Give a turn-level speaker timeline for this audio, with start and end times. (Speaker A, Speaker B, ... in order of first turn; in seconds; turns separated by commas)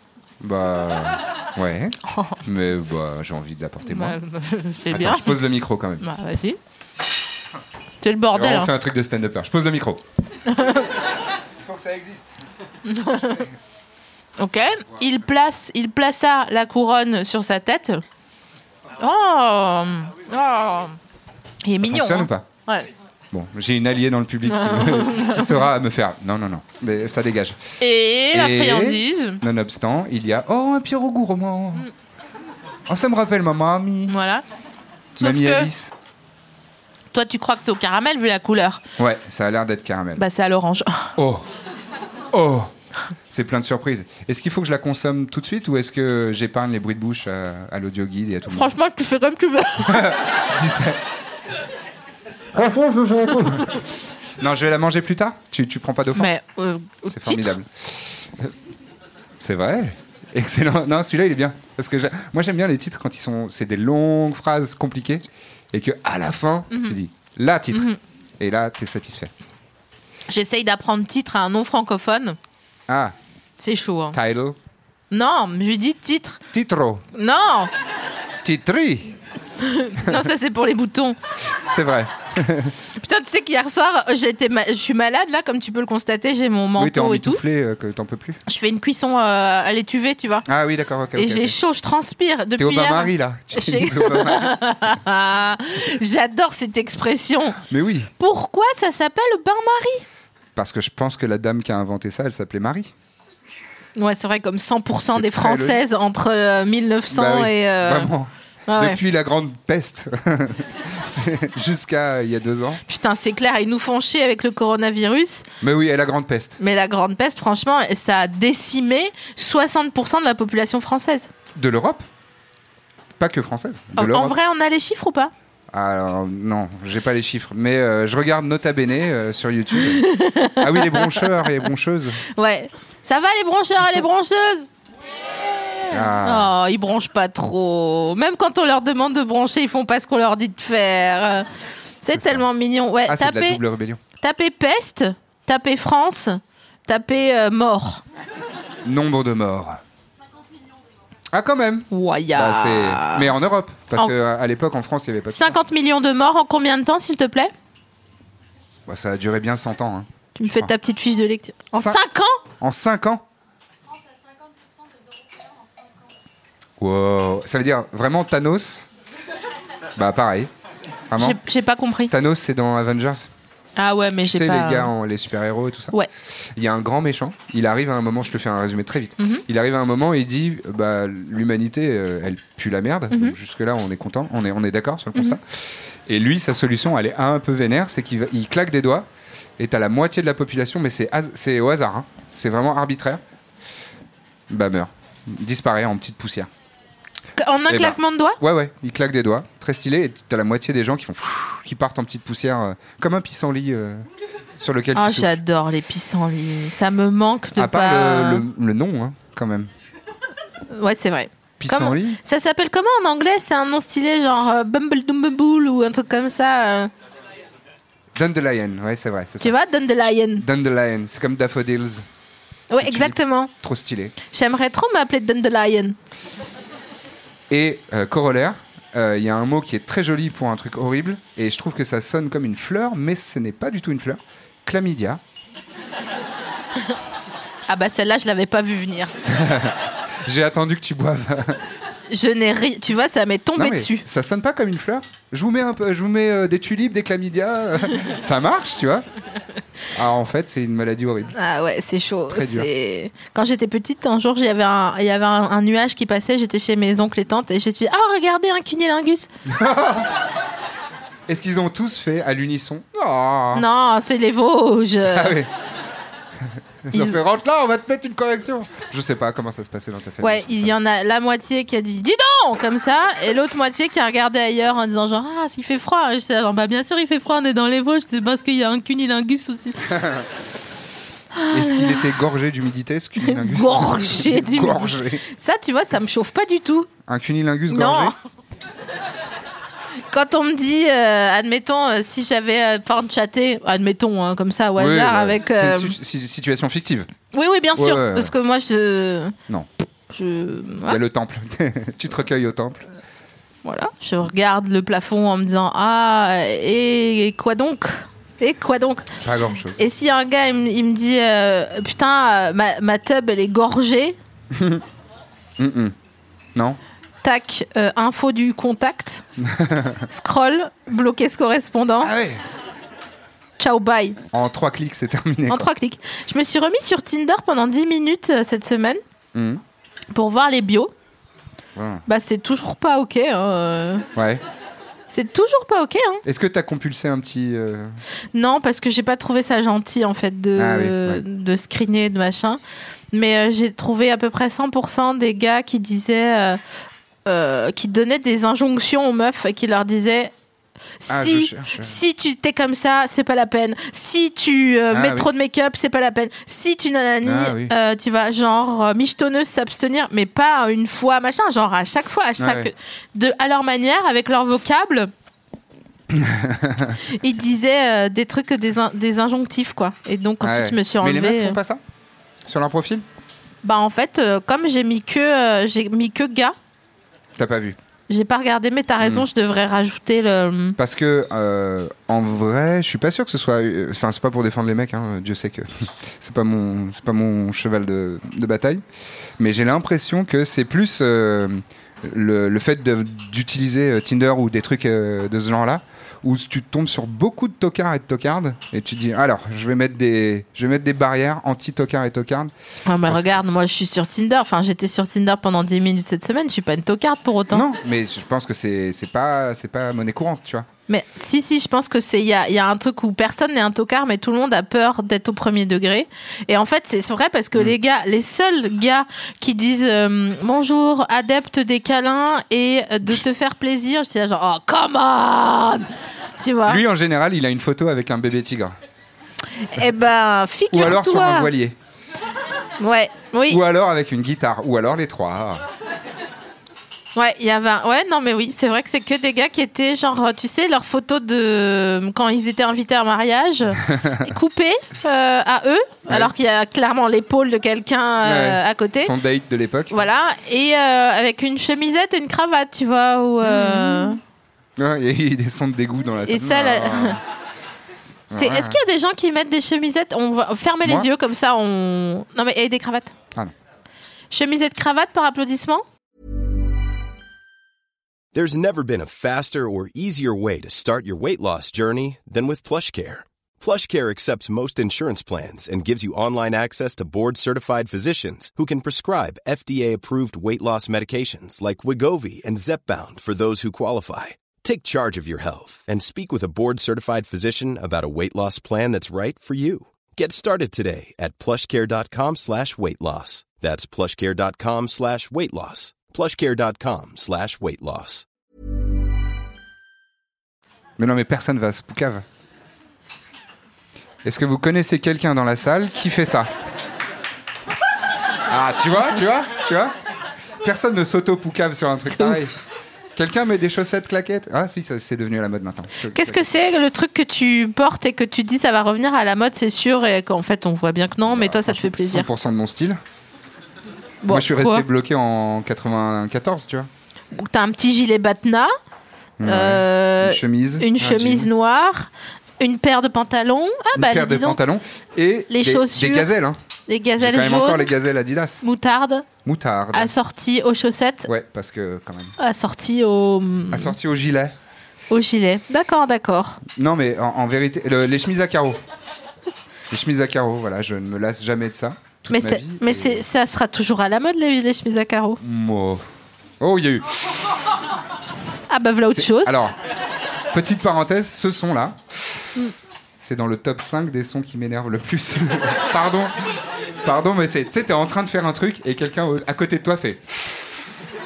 Speaker A: 0.4-4.2, Speaker B: 2.1-2.4, Speaker B: 3.9-5.4, Speaker A: 4.9-6.0, Speaker B: 6.0-6.6, Speaker B: 8.0-8.7, Speaker A: 8.3-10.0, Speaker B: 10.5-10.9, Speaker A: 11.6-12.3, Speaker B: 12.8-13.5, Speaker B: 14.4-18.0, Speaker B: 19.0-21.0, Speaker B: 21.6-22.9, Speaker A: 21.8-22.4, Speaker A: 23.3-27.6, Speaker B: 24.4-25.6, Speaker B: 27.8-29.4, Speaker A: 28.3-31.9, Speaker A: 32.9-34.1, Speaker B: 34.1-34.4, Speaker B: 35.2-35.7, Speaker A: 35.2-35.9, Speaker B: 37.1-38.8, Speaker A: 39.0-40.2, Speaker B: 40.2-41.1, Speaker A: 41.2-41.4, Speaker A: 42.3-42.7, Speaker A: 43.3-48.7, Speaker B: 48.5-50.1, Speaker A: 49.8-51.0, Speaker A: 52.5-53.8, Speaker A: 54.4-56.3, Speaker B: 56.1-57.5, Speaker A: 57.1-58.5, Speaker A: 59.4-67.9, Speaker B: 66.7-67.0, Speaker B: 67.7-68.0, Speaker A: 68.4-69.3, Speaker B: 70.3-72.4, Speaker A: 72.9-73.2, Speaker B: 73.6-74.2, Speaker A: 74.1-74.6, Speaker B: 75.1-76.4, Speaker A: 76.5-77.0, Speaker B: 77.1-77.7, Speaker A: 78.4-79.2, Speaker B: 79.6-81.2, Speaker A: 80.0-80.2, Speaker A: 81.5-82.8, Speaker B: 82.9-87.4, Speaker A: 86.8-88.4, Speaker B: 88.5-90.5, Speaker A: 90.5-91.5, Speaker B: 91.1-97.6, Speaker A: 92.6-94.5, Speaker A: 97.6-98.1, Speaker B: 98.2-100.0, Speaker A: 100.5-102.9, Speaker B: 104.0-108.1, Speaker A: 105.0-105.8, Speaker A: 107.1-112.8, Speaker B: 108.7-109.0, Speaker B: 112.8-115.5, Speaker A: 115.6-116.6, Speaker B: 116.6-121.3, Speaker A: 121.5-122.0, Speaker A: 123.2-124.4, Speaker B: 124.0-125.3, Speaker A: 125.7-132.2, Speaker B: 129.7-131.6, Speaker B: 132.2-134.7, Speaker A: 133.8-134.1, Speaker B: 135.6-141.5, Speaker A: 135.9-136.5, Speaker B: 142.0-143.6, Speaker A: 142.1-142.4, Speaker A: 143.0-144.0, Speaker B: 144.2-148.0, Speaker A: 148.8-149.8, Speaker A: 151.3-155.6, Speaker B: 151.9-153.3, Speaker B: 155.3-157.5, Speaker A: 158.9-160.7, Speaker B: 160.3-162.4, Speaker A: 161.7-162.0, Speaker A: 162.6-163.2, Speaker A: 166.8-168.9, Speaker A: 169.9-170.5, Speaker A: 171.1-171.4, Speaker B: 171.2-172.1, Speaker A: 172.1-173.3, Speaker B: 173.8-174.9, Speaker A: 174.2-193.2, Speaker B: 179.2-179.4, Speaker B: 183.1-183.3, Speaker A: 194.5-196.5, Speaker B: 197.4-198.4, Speaker A: 197.7-204.1, Speaker A: 204.6-205.3, Speaker B: 204.9-208.4, Speaker A: 207.6-209.7, Speaker B: 210.7-216.9, Speaker A: 211.6-212.2, Speaker A: 218.1-219.6, Speaker B: 219.4-220.4, Speaker A: 220.3-222.1, Speaker B: 222.7-223.5, Speaker A: 222.8-224.1, Speaker B: 224.3-225.9, Speaker A: 227.5-235.2, Speaker B: 237.7-239.1, Speaker A: 239.2-241.6, Speaker B: 242.1-244.1, Speaker A: 243.6-249.1, Speaker A: 249.9-251.3, Speaker B: 251.3-259.3, Speaker A: 252.3-252.7, Speaker A: 259.4-260.2, Speaker A: 261.3-263.6, Speaker B: 263.5-265.4, Speaker A: 265.1-265.5, Speaker A: 266.8-270.7, Speaker B: 266.9-267.2, Speaker B: 270.2-279.8, Speaker A: 279.9-280.2, Speaker B: 281.3-282.1, Speaker A: 281.5-285.2, Speaker B: 283.2-286.9, Speaker A: 287.1-288.1, Speaker B: 287.7-288.1, Speaker B: 290.1-295.9, Speaker A: 294.8-297.1, Speaker B: 297.3-299.3, Speaker A: 297.7-298.3, Speaker B: 300.1-301.0, Speaker A: 300.9-302.9, Speaker B: 303.6-309.1, Speaker A: 309.2-309.8, Speaker B: 309.8-314.2, Speaker A: 314.5-314.8, Speaker A: 315.6-315.9, Speaker B: 317.2-319.2, Speaker A: 319.4-320.0, Speaker B: 320.1-322.1, Speaker A: 322.0-322.4, Speaker B: 323.6-324.2, Speaker A: 324.3-325.7, Speaker B: 325.5-329.0, Speaker A: 329.3-329.6, Speaker B: 330.1-330.9, Speaker A: 331.7-332.0, Speaker B: 332.1-334.1, Speaker A: 334.1-334.4, Speaker B: 335.1-336.2, Speaker A: 336.2-338.0, Speaker B: 338.3-342.6, Speaker A: 340.6-341.2, Speaker B: 343.1-346.6, Speaker B: 347.2-350.3, Speaker B: 351.0-365.1, Speaker A: 351.1-352.0, Speaker A: 354.9-355.3, Speaker A: 357.2-357.7, Speaker A: 362.4-362.7, Speaker A: 366.1-367.0, Speaker B: 367.1-371.6, Speaker A: 370.4-371.8, Speaker A: 372.4-373.0, Speaker B: 373.6-376.5, Speaker A: 377.4-377.8, Speaker B: 378.1-380.8, Speaker A: 379.0-379.2, Speaker A: 380.8-388.8, Speaker A: 389.4-402.5, Speaker B: 402.9-407.6, Speaker A: 403.0-403.4, Speaker A: 407.5-410.7, Speaker B: 410.9-425.9, Speaker B: 426.4-426.8, Speaker A: 426.6-428.8, Speaker B: 429.6-431.5, Speaker A: 430.7-431.8, Speaker B: 432.8-433.6, Speaker A: 433.5-435.6, Speaker B: 437.1-449.1, Speaker A: 443.8-444.3, Speaker A: 448.2-450.0, Speaker B: 449.9-454.2, Speaker A: 453.4-454.2, Speaker A: 454.8-457.2, Speaker B: 456.3-457.2, Speaker A: 458.3-458.8, Speaker B: 458.3-463.1, Speaker B: 464.3-465.8, Speaker C: 468.3-498.2, Speaker A: 501.0-502.2, Speaker A: 504.2-506.5, Speaker A: 508.5-509.9, Speaker A: 510.6-512.5, Speaker A: 513.1-516.5, Speaker B: 516.1-522.3, Speaker A: 521.2-523.0, Speaker B: 524.2-524.8, Speaker A: 524.3-526.9, Speaker B: 527.3-528.7, Speaker A: 529.4-531.5, Speaker B: 529.4-534.6, Speaker A: 533.9-536.6, Speaker B: 535.5-536.3, Speaker B: 536.9-537.9, Speaker A: 537.2-538.6, Speaker B: 538.6-539.2, Speaker A: 539.4-540.1, Speaker B: 539.9-541.3, Speaker A: 541.2-542.4, Speaker B: 542.4-544.0, Speaker A: 543.7-544.5, Speaker B: 545.1-546.6, Speaker A: 546.7-548.8, Speaker A: 549.9-553.2, Speaker B: 552.3-555.4, Speaker A: 555.4-556.0, Speaker A: 556.6-557.1, Speaker B: 558.7-559.6, Speaker A: 559.1-559.7, Speaker A: 560.5-562.0, Speaker A: 563.2-570.4